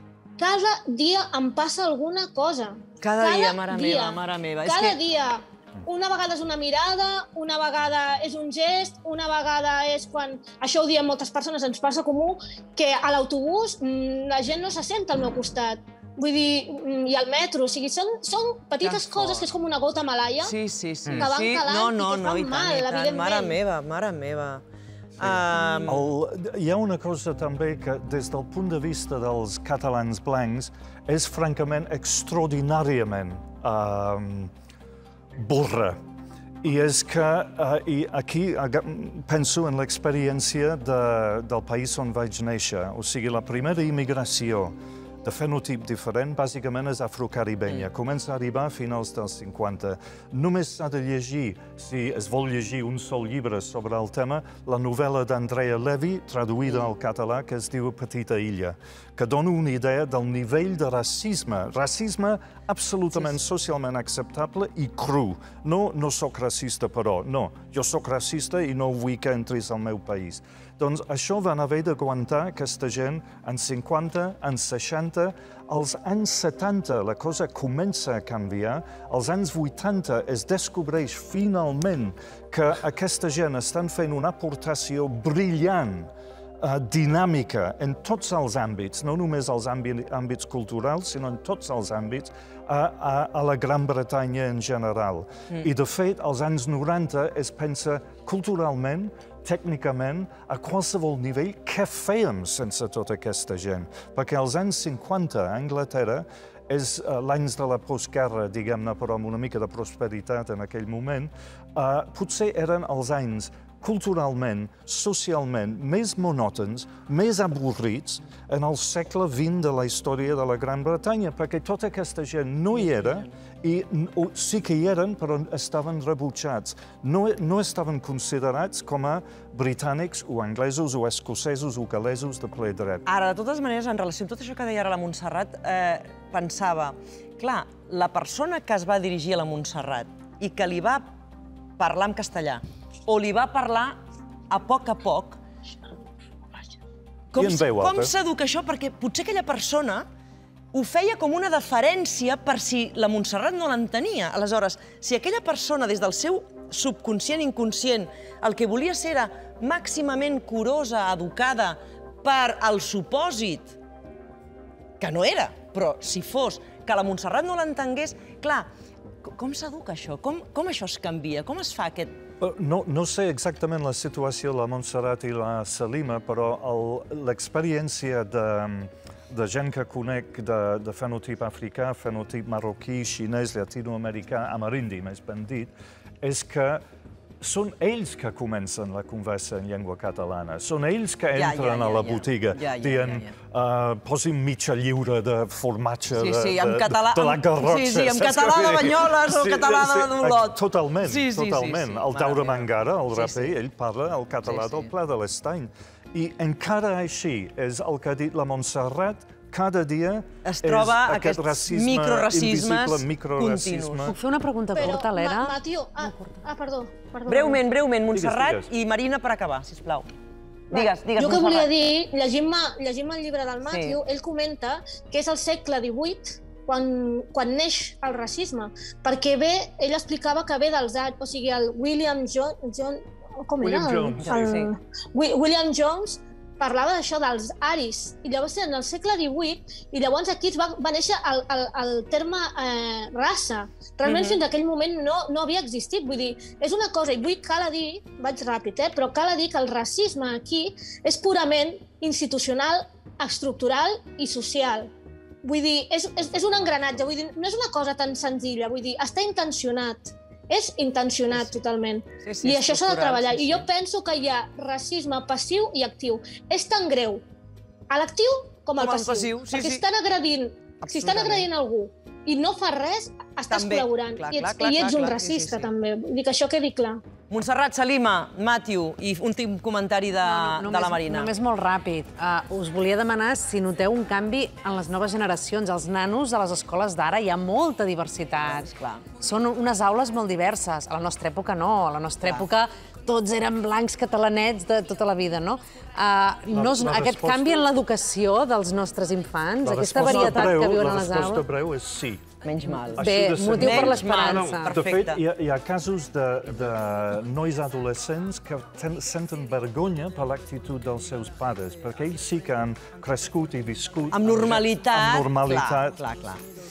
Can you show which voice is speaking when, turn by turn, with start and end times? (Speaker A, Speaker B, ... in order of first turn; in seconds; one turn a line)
Speaker A: 0.4-20.6
Speaker B: 3.0-5.0
Speaker B: 18.8-19.4
Speaker B: 20.4-24.6
Speaker A: 21.2-23.6
Speaker B: 25.2-26.1
Speaker C: 25.2-34.5
Speaker C: 35.4-36.0
Speaker C: 36.6-133.1
Speaker B: 122.8-123.3
Speaker B: 133.1-141.1
Speaker B: 141.8-144.0
Speaker B: 144.5-145.4
Speaker B: 147.3-150.1
Speaker C: 147.3-148.1
Speaker B: 150.7-163.8
Speaker B: 165.0-168.7
Speaker B: 169.2-172.2
Speaker C: 172.4-186.8
Speaker C: 187.4-214.1
Speaker B: 191.3-193.3
Speaker B: 196.1-203.6
Speaker B: 204.4-204.9
Speaker B: 210.4-214.1
Speaker D: 214.1-216.4
Speaker A: 214.7-217.6
Speaker B: 217.3-220.1
Speaker C: 218.1-218.7
Speaker B: 220.7-221.7
Speaker A: 220.7-254.9
Speaker B: 223.7-224.0
Speaker C: 233.6-234.7
Speaker B: 234.2-234.7
Speaker B: 244.1-244.4
Speaker A: 255.4-267.2
Speaker B: 262.2-263.6
Speaker A: 267.9-277.0
Speaker B: 268.8-269.8
Speaker B: 270.8-271.5
Speaker B: 273.5-275.7
Speaker B: 277.3-281.3
Speaker D: 280.2-301.4
Speaker B: 288.4-289.0
Speaker C: 296.5-297.6
Speaker C: 299.6-302.2
Speaker B: 300.1-300.4
Speaker B: 302.4-305.2
Speaker D: 302.9-304.7
Speaker C: 302.9-316.0
Speaker B: 314.1-316.4